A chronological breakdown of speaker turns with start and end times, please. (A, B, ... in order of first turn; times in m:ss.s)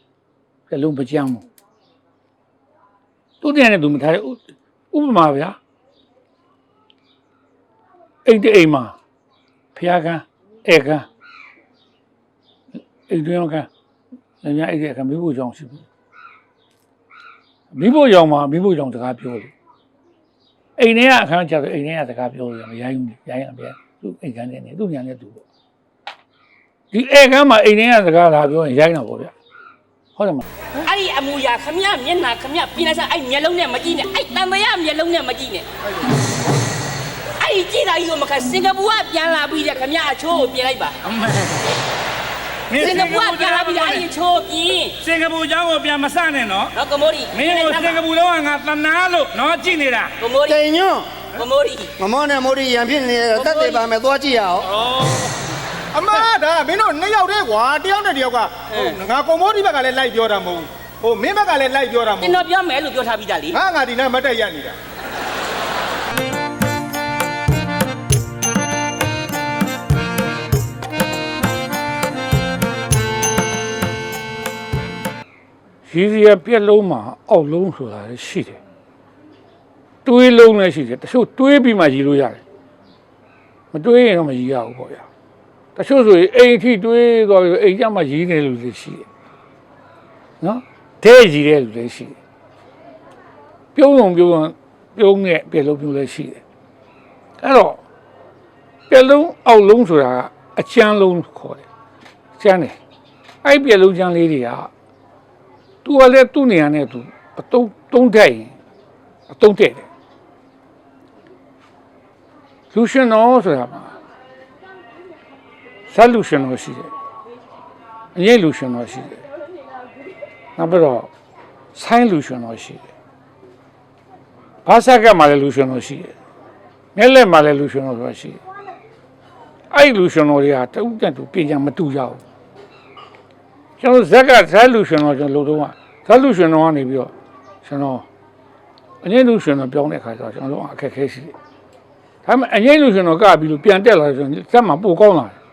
0:00.7-0:01.4 A
0:03.4-0:05.6 A
0:08.2-0:09.0 A
0:09.7-0:11.1 A
0:13.1-0:13.7 A
0:14.4-0:15.8 A
0:17.7-0:19.5 A
0:20.8-0:25.4 A
0:26.9-0:29.3 A
0:30.2-0:30.4 A
0:30.7-0:35.6 B
0:37.4-0:41.0 B
0:41.0-0:41.6 C
0:42.7-0:44.0 C
0:42.8-0:45.0 B
0:45.0-0:46.7 C
0:46.7-0:48.0 B
0:47.3-0:50.1 C
0:50.2-0:50.6 B
0:50.4-0:51.2 D
0:51.3-0:51.9 B
0:52.0-0:54.7 D
0:53.3-0:53.8 B
0:54.9-0:55.3 E
0:55.9-1:02.4 E
0:58.7-0:59.0 B
1:02.2-1:03.6 B
1:03.5-1:04.8 E
1:15.8-1:18.6 A
1:20.0-1:22.4 A
1:23.7-1:25.1 A
1:25.7-1:29.0 A
1:30.4-1:32.2 A
1:33.7-1:36.4 A
1:37.4-1:37.8 A
1:38.9-1:41.6 A
1:42.4-1:42.8 A
1:43.4-1:44.7 A
1:45.8-1:48.6 A
1:49.3-1:49.9 A
1:52.7-1:53.9 A
1:55.9-1:56.9 A
1:58.1-1:59.2 A
2:00.6-2:01.1 A
2:01.7-2:02.8 A
2:04.6-2:06.1 A
2:06.9-2:08.4 A
2:09.7-2:12.2 A
2:13.8-2:17.1 A
2:17.6-2:18.0 A
2:19.0-2:21.3 A
2:22.2-2:25.4 A